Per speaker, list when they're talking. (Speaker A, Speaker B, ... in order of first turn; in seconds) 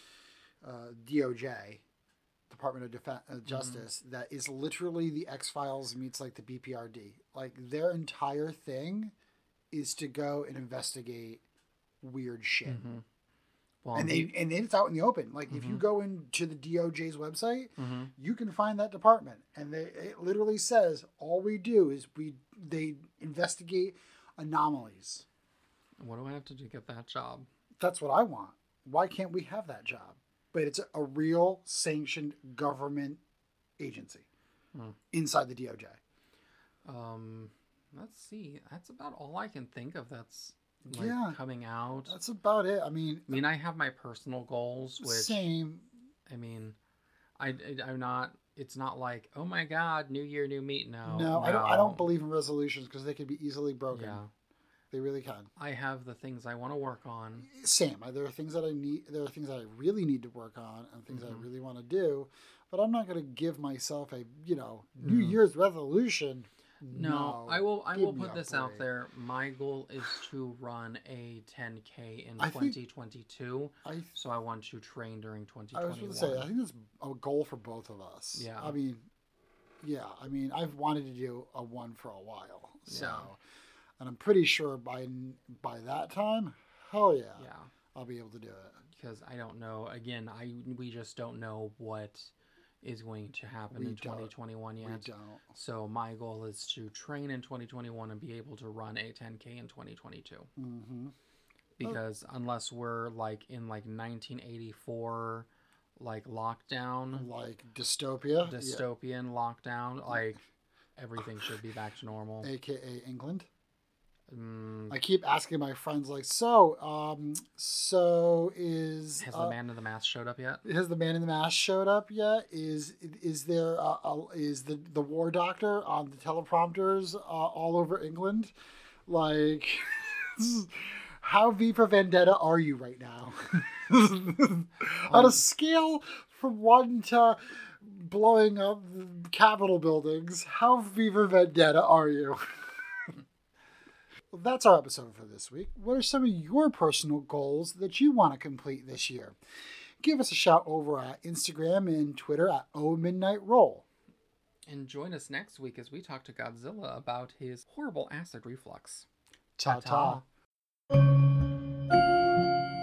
Speaker A: 0.6-1.8, 2.5-9.1, 9.7-11.4, 12.0-12.9, 13.9-25.2, 27.8-33.2, 33.8-34.3, 35.1-36.0, 40.8-41.4, 42.0-43.4, 45.0-45.9, 51.0-54.2, 54.9-55.5, 57.4-68.9, 72.4-72.8, 73.8-74.1, 75.7-79.1, 79.8-83.4, 84.0-88.8, 93.7-95.5, 100.5-101.1, 107.1-108.8, 112.4-113.5, 114.9-119.6, 120.6-128.5, 129.1-143.1, 144.3-149.4, 150.0-153.8, 159.6-160.2
Speaker B: 3.5-3.8, 12.7-13.0, 13.8-14.3, 15.5-15.8, 17.8-18.1, 26.0-27.5, 36.9-42.1, 43.3-45.5, 46.3-46.8, 47.4-52.1, 53.9-54.3, 55.6-57.5, 61.1-61.5, 65.0-65.4, 66.9-76.5, 78.3-78.8, 82.9-83.3, 87.3-87.7, 88.9-100.5, 101.8-107.3, 108.4-110.4, 111.0-112.5, 114.3-115.0, 119.2-120.6, 135.1-135.4, 154.7-159.1, 159.6-160.2